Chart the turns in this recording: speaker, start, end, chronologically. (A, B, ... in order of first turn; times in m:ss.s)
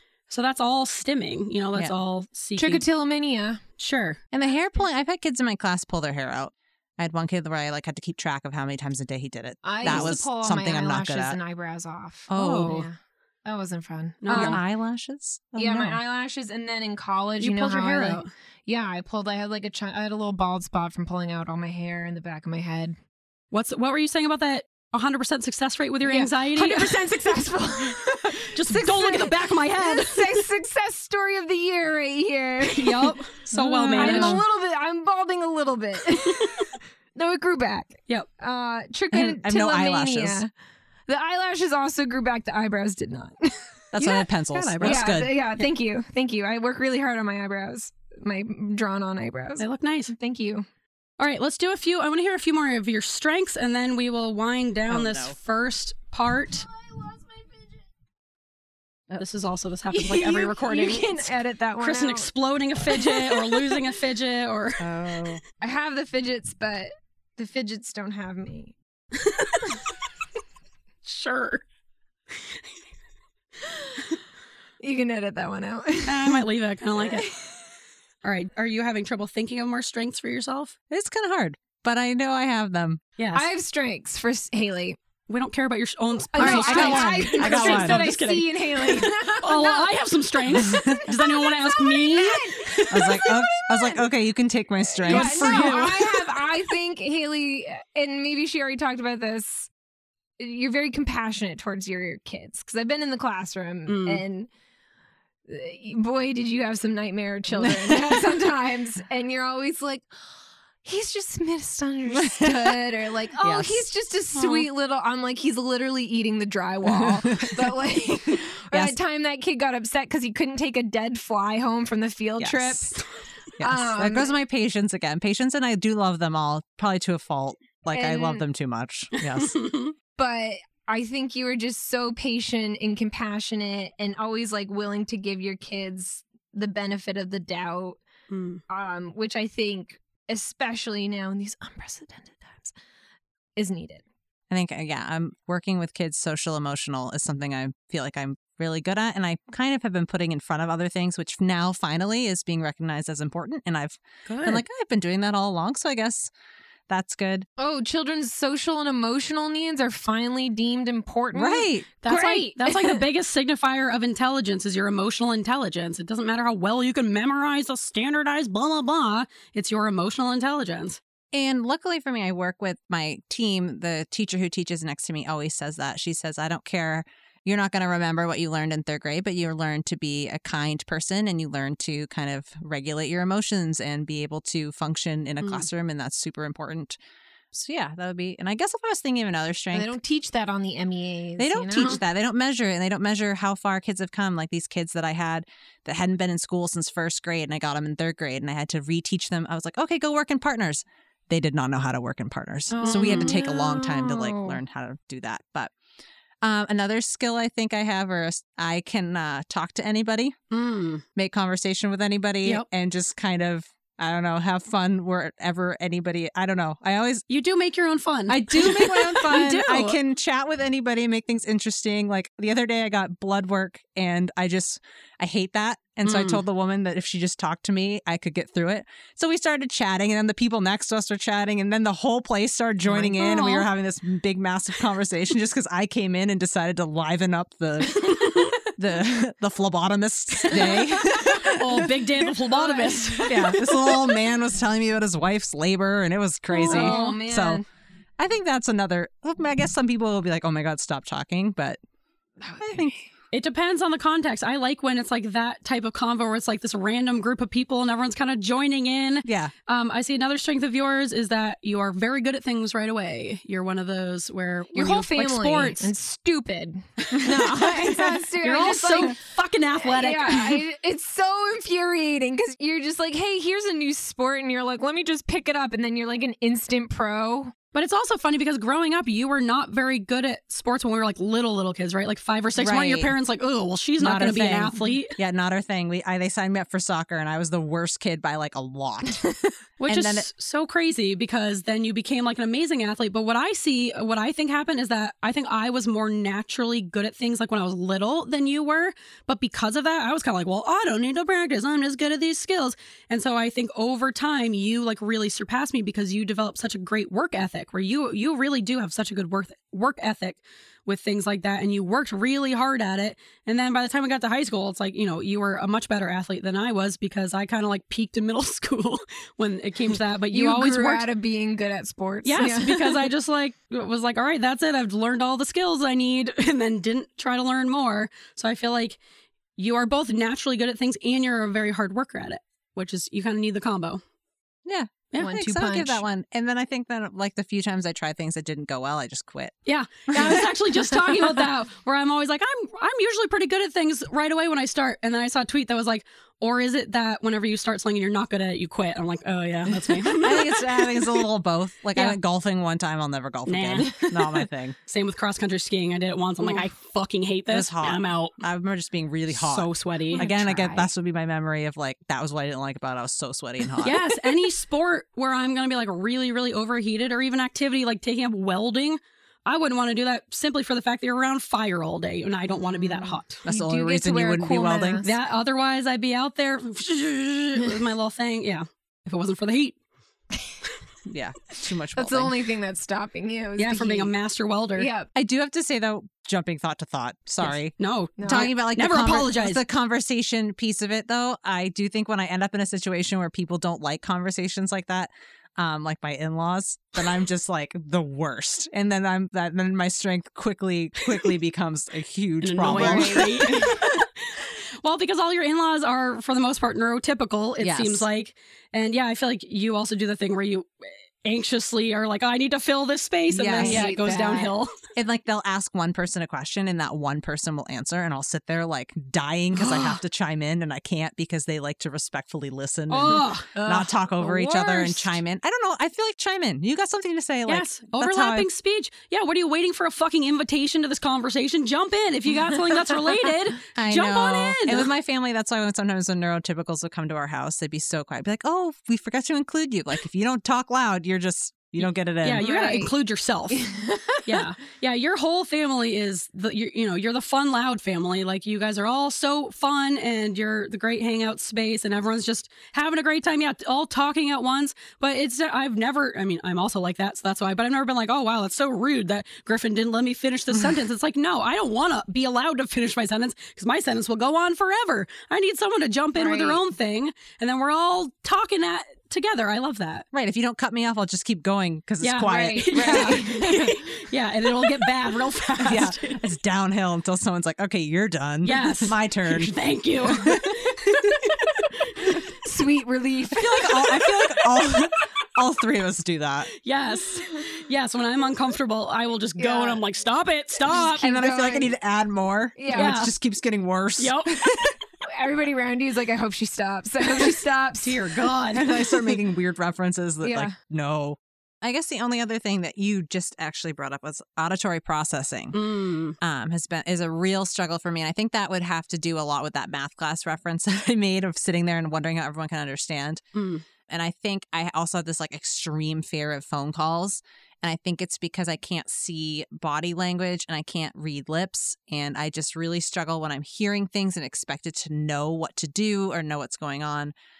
0:00.3-0:02.8 A
0:02.6-0:03.6 B
0:03.8-0:04.2 A
0:04.3-0:11.4 C
0:09.6-0:14.6 B
0:09.8-0:10.2 A
0:12.3-0:12.9 C
0:12.4-0:12.8 A
0:14.2-0:14.6 A
0:14.3-0:16.0 C
0:15.6-0:23.0 B
0:17.4-0:18.3 A
0:23.5-0:27.1 A
0:26.0-0:40.5 B
0:28.5-0:30.4 A
0:32.6-0:34.4 A
0:33.5-0:34.4 C
0:36.3-0:36.6 A
0:39.1-0:40.4 C
0:41.1-0:44.2 B
0:43.9-0:45.3 C
0:44.0-0:45.1 A
0:44.8-0:50.7 B
0:49.6-0:50.1 A
0:51.2-0:56.7 A
0:54.9-0:55.4 C
0:59.2-1:04.8 A
0:59.9-1:03.8 B
1:04.8-1:05.4 C
1:05.6-1:08.7 B
1:09.2-1:09.8 A
1:11.0-1:11.6 A
1:13.7-1:14.2 B
1:14.8-1:16.5 B
1:16.0-1:17.3 A
1:17.0-1:17.6 B
1:18.2-1:20.7 A
1:20.9-1:23.0 C
1:23.2-1:23.4 A
1:23.3-1:25.0 B
1:25.3-1:33.2 A
1:26.3-1:34.0 B
1:26.4-1:28.1 C
1:30.5-1:31.1 C
1:32.9-1:36.1 C
1:35.0-1:39.7 B
1:35.1-1:36.3 A
1:40.4-1:44.5 B
1:43.9-1:44.2 A
1:45.5-1:50.1 B
1:47.6-1:48.2 C
1:50.8-2:03.0 B
1:52.1-1:52.8 C
1:53.4-1:53.9 C
1:54.4-1:54.6 A
1:57.0-1:57.7 C
2:02.4-2:02.9 C
2:03.6-2:04.4 B
2:03.6-2:09.6 C
2:07.9-2:08.4 B
2:09.2-2:09.9 A
2:10.2-2:18.0 B
2:18.3-2:18.6 A
2:18.7-2:22.7 B
2:23.6-2:24.0 B
2:24.5-2:36.3 C
2:34.3-2:34.6 A
2:36.9-2:37.5 C
2:37.6-2:43.0 B
2:41.3-2:41.9 C
2:42.0-2:51.0 A
2:51.3-3:07.0 C
3:07.5-3:09.9 C
3:09.7-3:12.0 B
3:11.4-3:25.7 C
3:22.7-3:23.4 A
3:22.8-3:24.6 B
3:26.4-3:30.4 C
3:30.5-3:31.0 A
3:31.2-3:37.3 C
3:37.3-3:40.0 A
3:38.3-4:02.1 C
3:46.0-3:46.4 A
3:52.9-3:53.7 A
3:58.0-3:58.6 A
4:00.5-4:01.3 B
4:01.2-4:03.7 A
4:02.5-4:04.2 B
4:03.3-4:07.6 C
4:06.5-4:07.7 B
4:06.6-4:07.2 A
4:08.2-4:11.8 C
4:12.4-4:13.0 B
4:12.6-4:13.0 C
4:13.3-4:25.9 A
4:19.2-4:19.5 C
4:24.8-4:29.2 B
4:28.4-4:30.6 A
4:29.8-4:37.5 B
4:37.7-4:45.2 A
4:42.6-4:43.1 C
4:44.0-4:49.2 C
4:49.8-5:21.1 A
4:49.9-4:50.3 C
5:20.3-5:23.1 B
5:22.2-5:29.0 A
5:29.6-5:34.0 A
5:34.6-5:39.6 C
5:35.2-5:36.0 B
5:39.7-5:51.1 A
5:40.1-5:40.5 C
5:49.8-5:54.8 C
5:53.4-5:58.4 A
5:57.5-6:04.1 C
5:59.3-6:00.2 A
6:00.1-6:00.9 B
6:03.8-6:13.4 A
6:12.8-6:15.1 B
6:13.5-6:15.0 C
6:15.0-6:19.8 A
6:21.0-6:22.4 C
6:22.0-6:24.1 B
6:23.6-6:24.9 A
6:24.8-6:25.1 B
6:25.2-6:43.7 C
6:27.5-6:29.6 A
6:28.2-6:28.5 B
6:42.4-6:54.7 A
6:42.6-6:44.0 B
6:47.6-6:48.1 C
6:53.3-6:53.9 C
6:53.5-6:54.5 B
6:55.0-7:08.5 C
6:59.5-7:00.0 A
7:02.9-7:05.2 A
7:07.5-7:14.9 A
7:13.8-7:22.5 C
7:22.2-7:23.7 A
7:22.4-7:22.9 B
7:23.5-7:24.4 B
7:24.2-7:50.1 A
7:46.2-7:46.6 B
7:50.1-7:53.4 C
7:52.0-7:56.3 A
7:52.2-7:53.8 B
7:55.6-7:59.5 C
7:58.4-8:02.2 A
8:00.0-8:01.3 C
8:02.1-8:04.0 B
8:03.3-8:06.5 C
8:06.6-8:11.0 A
8:09.4-8:09.8 B
8:10.7-8:11.7 B
8:11.0-8:14.8 C
8:12.6-8:13.1 B
8:12.7-8:13.1 A
8:14.0-8:14.6 A
8:15.0-8:19.2 B
8:17.8-8:18.7 A
8:18.6-8:33.2 C
8:20.2-8:20.5 B
8:25.5-8:26.2 A
8:33.4-8:33.6 A
8:33.9-8:47.1 C